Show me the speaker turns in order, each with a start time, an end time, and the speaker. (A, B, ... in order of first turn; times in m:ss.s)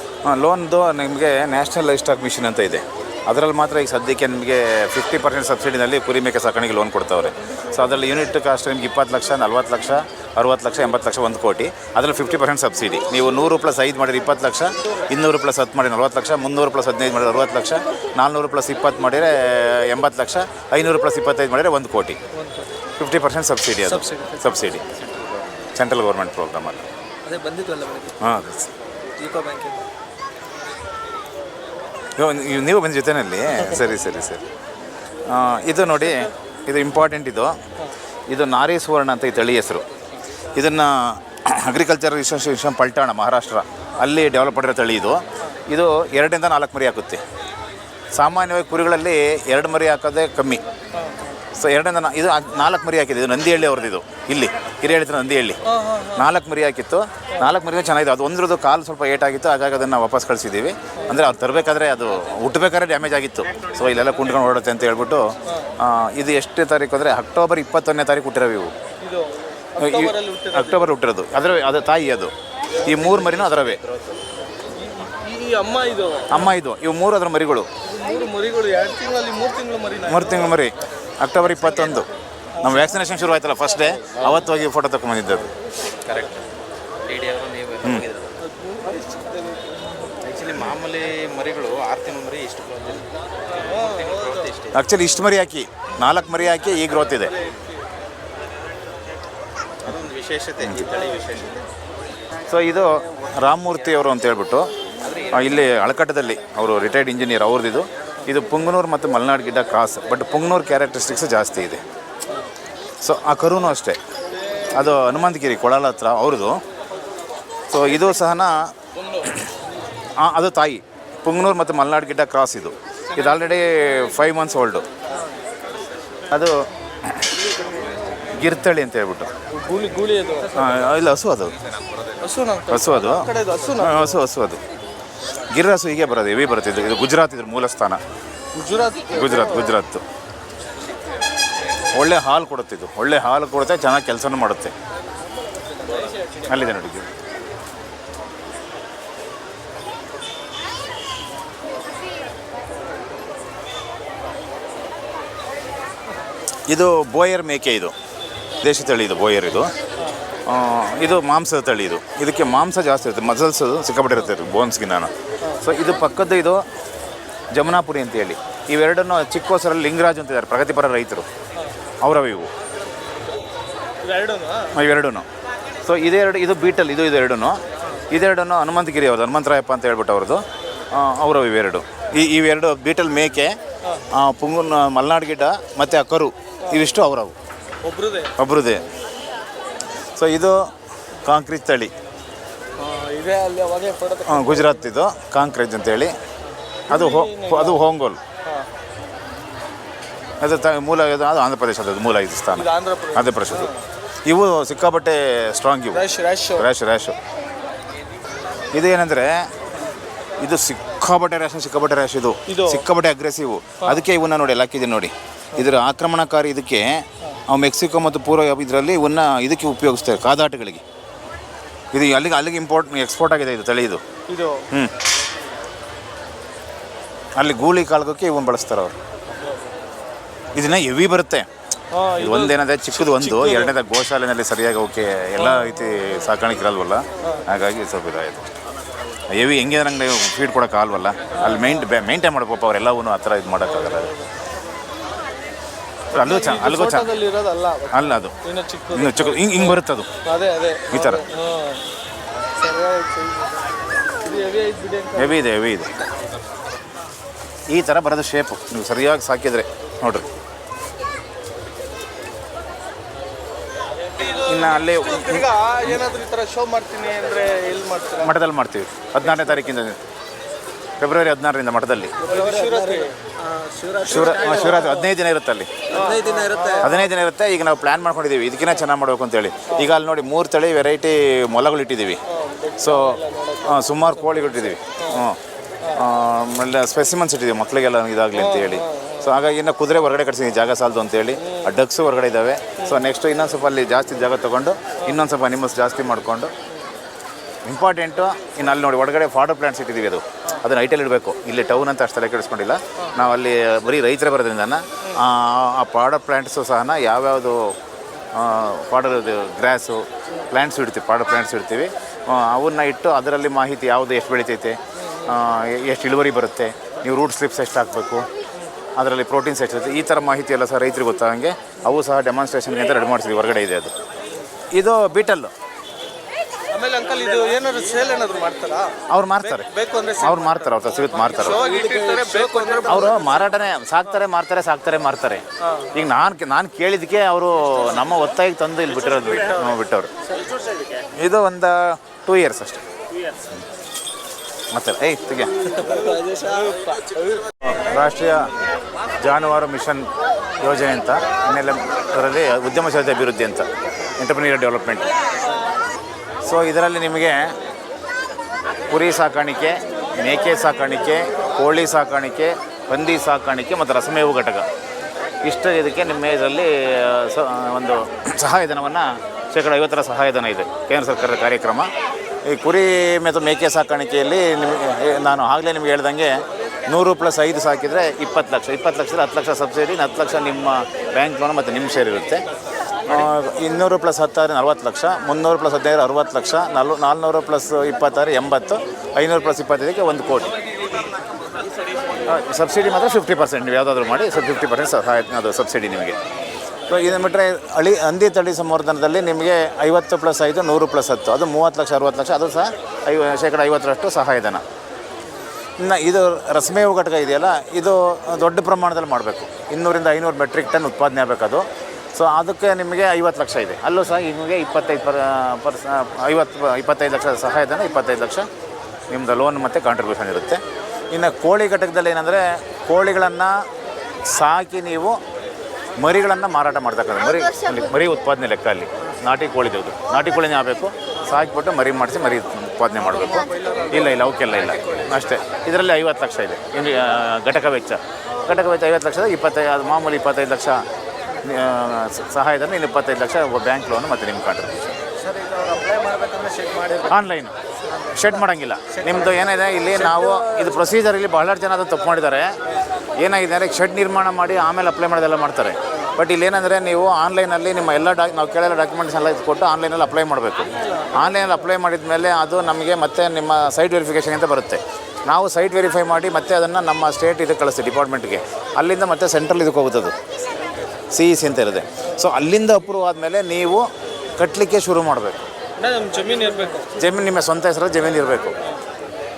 0:00.2-0:22.2 A
0:22.4-0:22.7 B
0:23.0-0:24.8 A
0:23.9-0:24.3 B
0:25.8-0:26.8 A
0:27.3-0:28.1 C
0:28.2-0:28.7 A
0:32.2-0:34.4 A
0:35.2-0:37.6 A
0:38.3-0:39.8 A
0:40.6-0:47.2 A
0:48.1-0:50.6 A
0:51.0-0:51.4 B
0:51.5-1:08.7 A
0:55.7-0:56.3 B
1:09.0-1:10.9 B
1:09.8-1:13.8 A
1:12.9-1:13.2 B
1:14.8-1:16.6 B
1:16.3-1:17.7 A
1:17.8-1:20.6 B
1:20.1-1:22.1 A
1:22.6-1:25.5 A
1:26.0-1:26.5 C
1:27.0-1:28.3 C
1:28.4-1:29.6 B
1:30.2-1:34.8 C
1:33.5-1:34.6 B
1:34.7-1:37.4 A
1:37.1-1:37.6 B
1:39.8-1:41.7 C
1:40.6-1:40.9 A
1:42.5-1:44.7 A
1:45.0-1:45.5 C
1:45.3-1:51.8 A
1:53.0-1:54.0 A
1:54.7-1:56.6 A
1:57.7-1:59.5 A
2:00.2-2:04.9 A
2:06.3-2:07.4 A
2:08.3-2:09.3 A
2:09.5-2:10.7 B
2:10.5-2:11.6 A
2:12.2-2:14.2 B
2:12.7-2:14.6 A
2:15.5-2:18.0 A
2:18.5-2:19.7 B
2:19.1-2:20.0 A
2:21.9-2:24.7 A
2:25.8-2:26.3 B
2:26.4-2:27.1 A
2:36.7-2:37.9 A
2:38.6-2:39.7 A
2:40.0-2:40.3 B
2:40.5-2:46.6 A
2:47.5-2:51.3 A
2:52.0-2:52.5 A
2:54.0-2:54.8 B
2:54.7-2:55.3 A
2:55.8-3:03.6 A
3:04.1-3:07.4 A
3:07.8-3:08.3 B
3:08.4-3:08.8 A
3:10.2-3:10.7 A
3:11.2-3:11.9 A
3:12.8-3:14.9 B
3:14.3-3:16.2 A
3:16.9-3:17.8 B
3:16.9-3:18.2 A
3:20.4-3:23.7 A
3:22.5-3:23.8 B
3:24.2-3:27.2 A
3:25.9-3:26.7 B
3:28.7-3:29.5 A
3:30.4-3:40.8 A
3:32.5-3:32.9 B
3:41.9-3:44.0 A
3:44.3-3:44.7 B
3:47.4-3:49.0 A
3:50.6-3:51.5 A
3:51.9-3:53.7 B
3:52.2-3:58.5 A
3:55.4-3:56.1 B
3:59.3-4:04.1 A
4:01.3-4:01.9 B
4:03.6-4:04.3 B
4:06.1-4:07.1 A
4:06.2-4:11.9 B
4:07.9-4:08.4 A
4:08.9-4:10.1 A
4:10.9-4:11.2 A
4:12.5-4:15.4 B
4:15.2-4:15.9 A
4:17.7-4:20.3 A
4:24.3-4:28.4 B
4:24.3-4:25.5 A
4:28.2-4:30.0 A
4:29.3-4:29.6 B
4:31.0-4:32.2 A
4:32.2-4:33.2 B
4:32.2-4:35.0 C
4:34.0-4:35.7 A
4:34.1-4:35.0 B
4:35.9-4:36.9 C
4:35.9-4:37.0 B
4:36.8-4:42.2 A
4:42.3-4:45.3 B
4:42.8-4:45.4 A
4:45.9-4:56.5 A
4:48.3-4:49.3 B
4:51.4-4:51.7 B
4:57.6-5:07.8 A
5:08.3-5:18.3 A
5:15.0-5:15.4 B
5:19.0-5:23.9 A
5:24.7-5:25.5 A
5:26.7-5:33.5 B
5:29.1-5:29.7 A
5:30.2-5:31.6 A
5:31.6-5:33.0 C
5:32.8-5:40.1 A
5:35.6-5:36.0 B
5:41.2-5:42.8 A
5:44.7-5:45.7 A
5:45.7-5:46.7 B
5:45.9-5:46.8 C
5:47.8-5:48.5 A
5:49.2-5:50.1 A
5:50.6-5:53.7 A
5:54.2-5:55.1 A
5:56.4-5:57.5 A
5:58.9-6:04.7 A
6:05.4-6:11.9 A
6:12.5-6:16.4 A
6:16.9-6:22.4 A
6:23.0-6:30.5 A
6:32.3-6:36.2 A
6:36.9-6:44.6 A
6:45.8-6:58.5 A
6:59.1-7:03.6 A
7:04.3-7:05.2 A
7:06.0-7:20.8 A
7:13.0-7:15.3 B
7:21.4-7:25.0 A
7:25.3-7:25.5 B
7:25.5-7:26.7 C
7:26.2-7:27.1 B
7:27.0-7:32.6 A
7:28.9-7:30.8 B
7:33.2-7:50.2 A
7:51.1-7:55.4 A
7:55.8-7:57.0 B
7:57.0-7:58.6 A